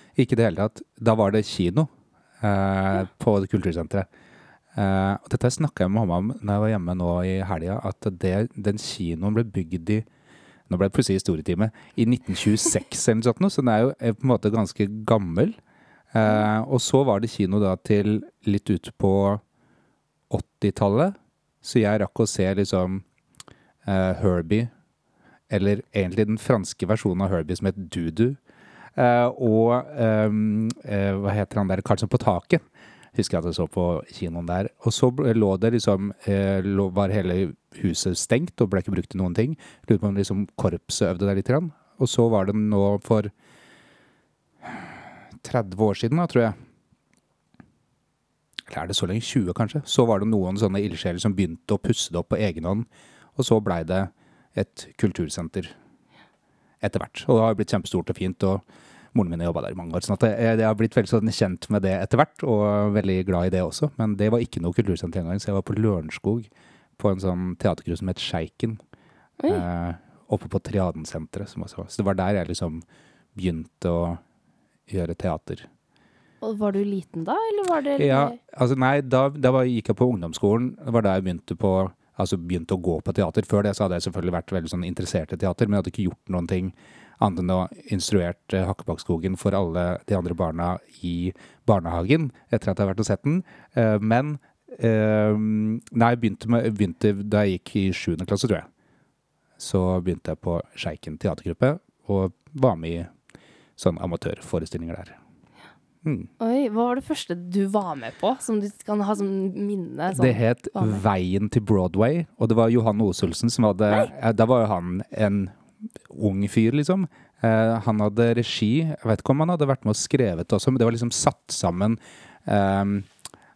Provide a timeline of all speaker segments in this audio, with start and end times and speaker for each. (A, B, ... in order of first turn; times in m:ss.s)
0:00.2-0:01.9 A
0:02.4-0:04.1 A
0:04.8-0:10.1 A
0:10.7-0:15.6 A
0:16.1-0:19.4 A
0:20.3-0:23.0 A
0:23.8-0:24.7 A
0:25.5-0:28.4 A
0:29.0-0:43.3 A
0:44.6-0:46.6 A
0:48.7-0:55.8 A
0:56.8-1:08.8 A
1:09.4-1:09.6 B
1:09.5-1:12.8 A
1:13.4-1:14.2 A
1:14.9-1:15.7 A
1:16.4-1:18.4 B
1:18.0-1:38.7 A
1:39.6-1:43.1 A
1:43.8-1:45.2 A
1:46.0-1:46.3 A
1:46.4-1:51.0 B
1:50.1-2:03.1 A